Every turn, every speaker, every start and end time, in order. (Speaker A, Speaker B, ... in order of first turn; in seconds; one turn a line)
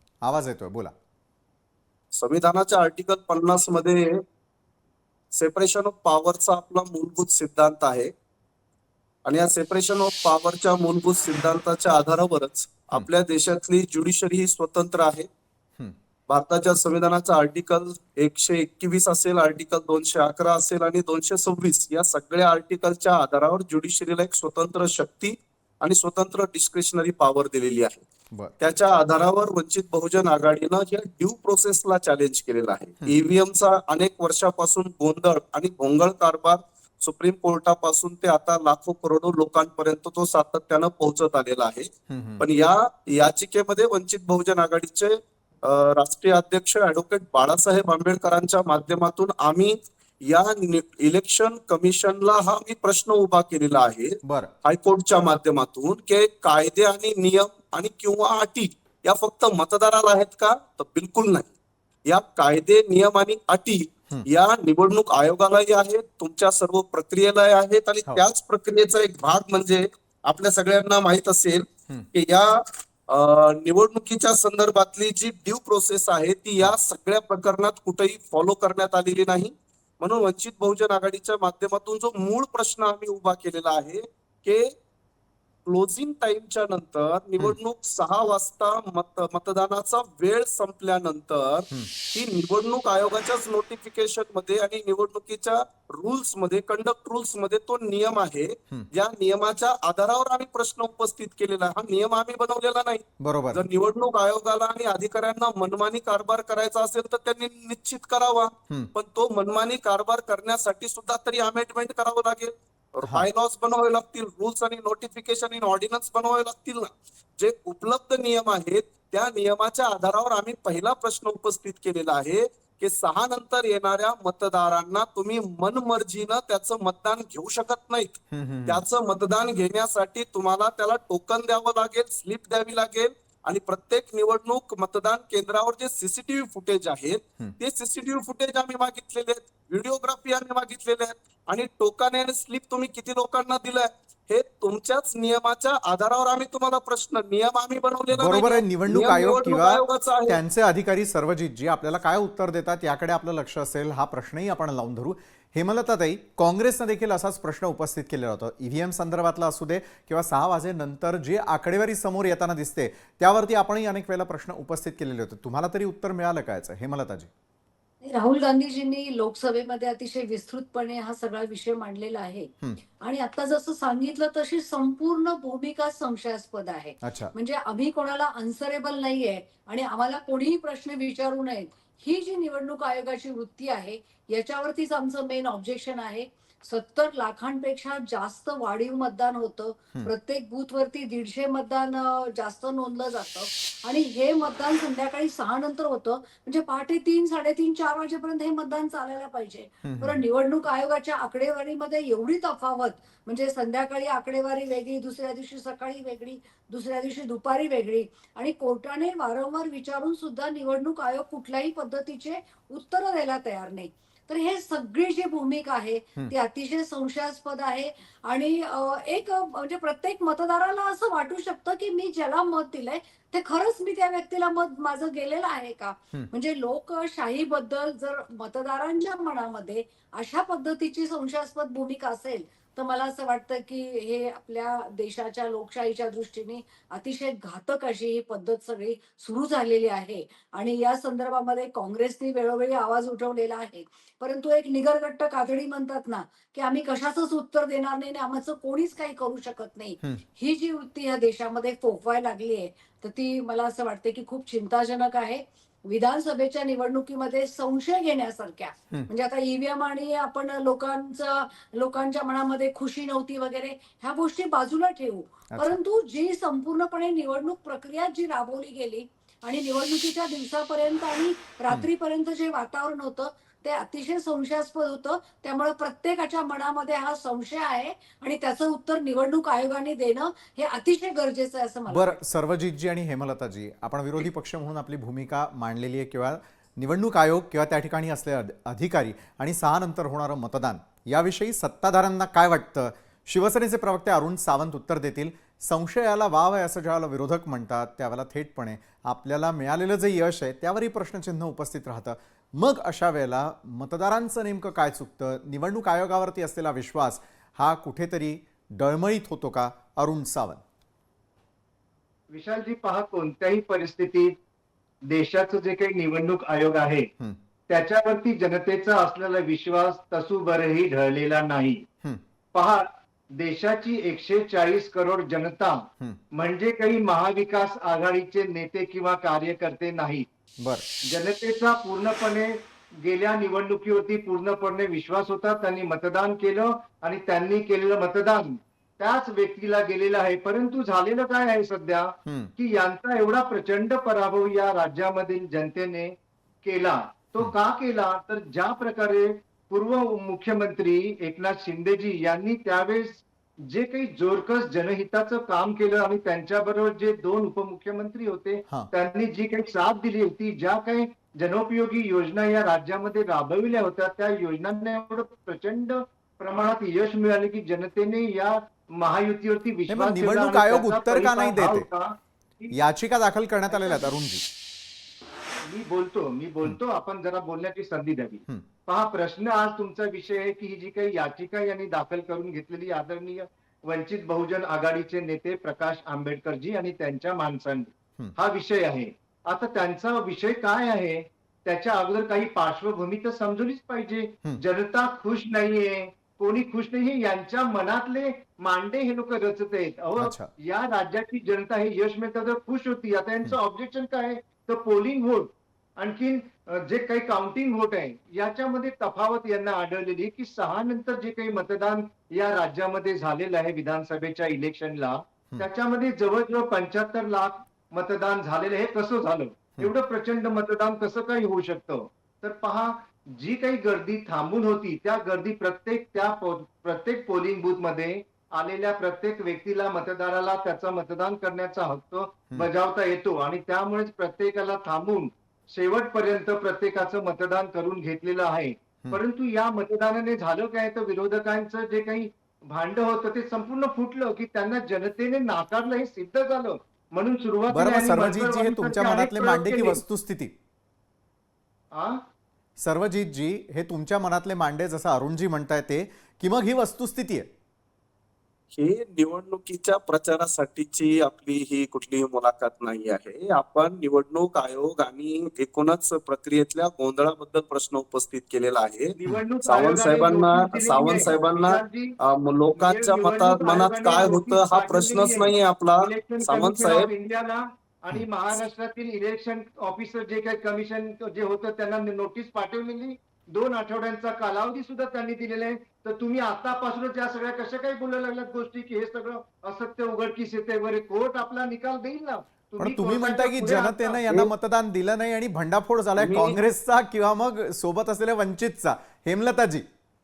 Speaker A: 0.2-0.9
Speaker B: 2.1-4.2
Speaker B: 5.3-8.1
Speaker B: 9.2-15.3
Speaker B: 16.3-28.0
Speaker B: 28.6-61.5
Speaker A: 42.1-42.4
Speaker A: 54.2-54.5
Speaker B: 62.1-72.5
Speaker B: 73.1-84.7
Speaker B: 85.7-150.4
Speaker A: 103.2-103.6
Speaker A: 128.3-128.8
Speaker A: 148.1-167.3
Speaker C: 168.0-282.2
Speaker A: 177.0-177.3
Speaker A: 199.8-200.2
Speaker A: 281.9-310.6
Speaker D: 312.3-314.3
Speaker D: 315.1-317.1
Speaker D: 317.7-321.8
Speaker D: 322.5-330.2
Speaker A: 330.6-330.8
Speaker D: 331.1-372.7
Speaker A: 342.2-342.5
Speaker A: 369.9-371.9
Speaker A: 372.7-374.4
Speaker D: 373.7-374.1
Speaker D: 375.6-450.0
Speaker A: 400.2-400.5
Speaker A: 447.7-450.5
Speaker D: 451.9-452.2
Speaker A: 452.8-457.5
Speaker B: 458.7-477.1
Speaker D: 469.2-472.1
Speaker D: 472.7-494.5
Speaker A: 492.8-499.9
Speaker B: 496.2-496.6